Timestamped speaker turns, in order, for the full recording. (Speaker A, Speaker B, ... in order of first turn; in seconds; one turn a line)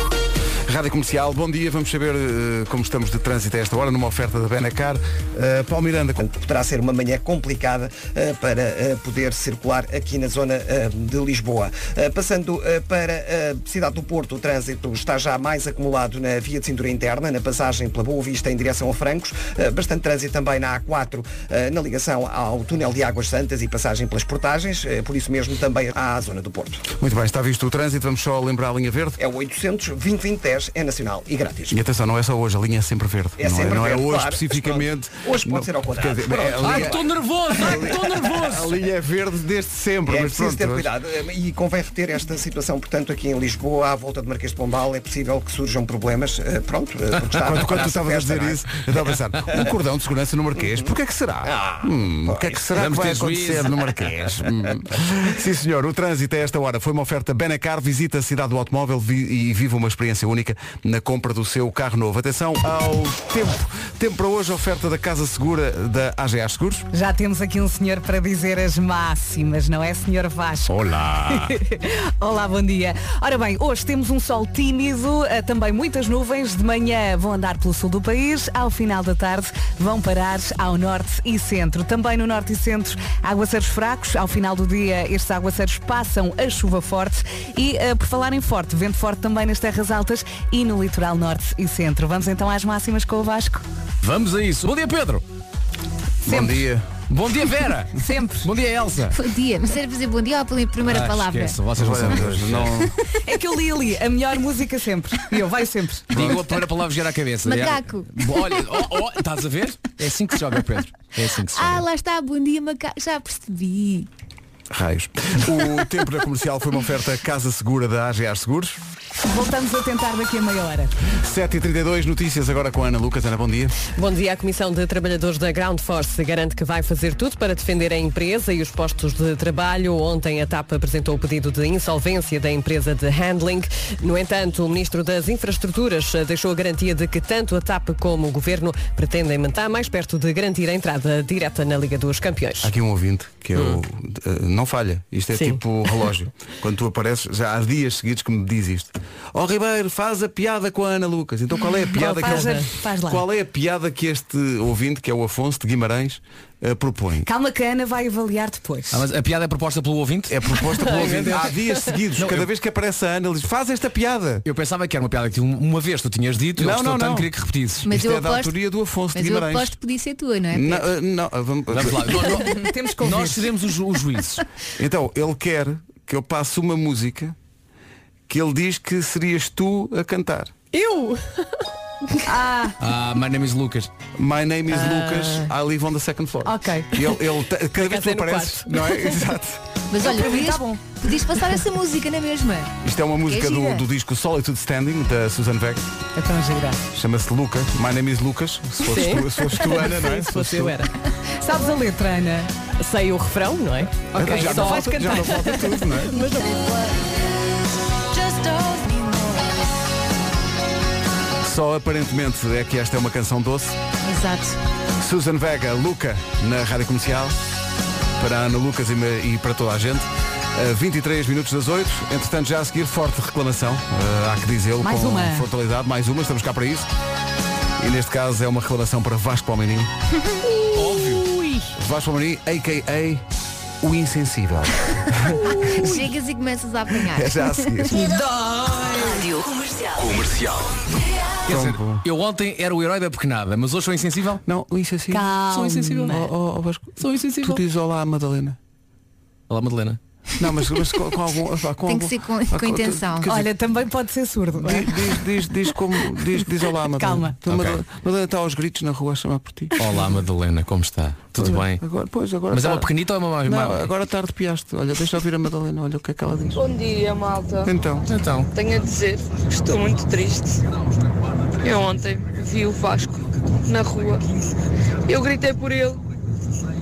Speaker A: 0.7-6.2
Speaker B: 6.2-26.9
Speaker A: 26.9-29.2
Speaker B: 29.2-31.8
Speaker A: 31.7-40.9
Speaker B: 33.4-37.0
Speaker C: 36.6-38.8
Speaker B: 37.6-38.3
Speaker B: 40.1-48.8
Speaker A: 47.3-66.9
Speaker B: 49.4-49.7
Speaker B: 51.4-52.7
Speaker C: 52.7-53.9
Speaker D: 66.9-70.8
Speaker C: 70.7-71.6
Speaker D: 71.3-93.6
Speaker C: 94.0-95.2
Speaker A: 96.2-96.9
Speaker D: 96.2-96.6
Speaker C: 97.1-99.2
Speaker D: 98.0-98.5
Speaker E: 99.1-101.6
Speaker C: 100.8-102.8
Speaker A: 101.8-102.9
Speaker D: 103.2-106.1
Speaker A: 106.1-106.4
Speaker C: 106.1-111.8
Speaker E: 107.4-108.1
Speaker E: 111.5-114.1
Speaker A: 114.7-118.8
Speaker D: 119.2-120.9
Speaker A: 121.0-123.8
Speaker F: 123.9-142.7
Speaker A: 142.6-157.3
Speaker F: 145.3-145.6
Speaker D: 151.9-153.2
Speaker F: 152.1-152.7
Speaker D: 157.2-159.0
Speaker C: 158.9-161.5
Speaker A: 160.3-164.4
Speaker F: 160.8-161.9
Speaker C: 162.2-162.5
Speaker C: 164.4-167.8
Speaker A: 166.6-167.3
Speaker E: 167.8-168.5
Speaker A: 167.8-169.8
Speaker E: 169.1-170.9
Speaker A: 170.5-172.3
Speaker C: 171.7-174.4
Speaker D: 172.4-173.5
Speaker A: 174.8-177.3
Speaker A: 178.3-180.5
Speaker F: 180.7-181.5
Speaker D: 182.2-182.8
Speaker C: 182.8-183.9
Speaker A: 184.2-189.6
Speaker F: 184.7-185.5
Speaker D: 186.4-186.9
Speaker F: 187.7-189.0
Speaker E: 189.9-192.7
Speaker D: 190.0-190.8
Speaker A: 192.8-195.9
Speaker E: 193.3-193.8
Speaker D: 196.2-196.8
Speaker A: 196.9-200.7
Speaker F: 198.8-200.9
Speaker D: 201.4-202.5
Speaker F: 202.8-205.8
Speaker D: 204.1-206.6
Speaker A: 204.1-206.2
Speaker E: 208.1-209.3
Speaker A: 211.4-213.8
Speaker E: 214.0-214.6
Speaker A: 215.0-217.4
Speaker A: 218.2-226.9
Speaker D: 224.8-225.4
Speaker A: 227.8-229.9
Speaker C: 230.7-231.2
Speaker A: 231.8-233.2
Speaker A: 233.8-235.6
Speaker E: 235.6-237.3
Speaker A: 237.0-238.0
Speaker D: 237.9-239.2
Speaker C: 241.4-244.4
Speaker A: 241.5-242.0
Speaker A: 244.4-245.3
Speaker D: 245.1-246.3
Speaker C: 245.5-246.2
Speaker A: 246.0-248.6
Speaker C: 247.0-247.6
Speaker C: 249.5-250.0
Speaker A: 250.4-253.5
Speaker E: 251.8-253.3
Speaker D: 253.3-255.1
Speaker A: 254.6-259.8
Speaker D: 256.9-257.4
Speaker C: 257.5-257.8
Speaker C: 259.8-261.8
Speaker A: 261.4-262.9
Speaker C: 262.5-263.9
Speaker A: 263.4-266.6
Speaker G: 266.5-267.7
Speaker A: 267.6-268.1
Speaker C: 268.1-268.5
Speaker G: 268.5-270.6
Speaker G: 271.6-274.3
Speaker G: 275.0-276.0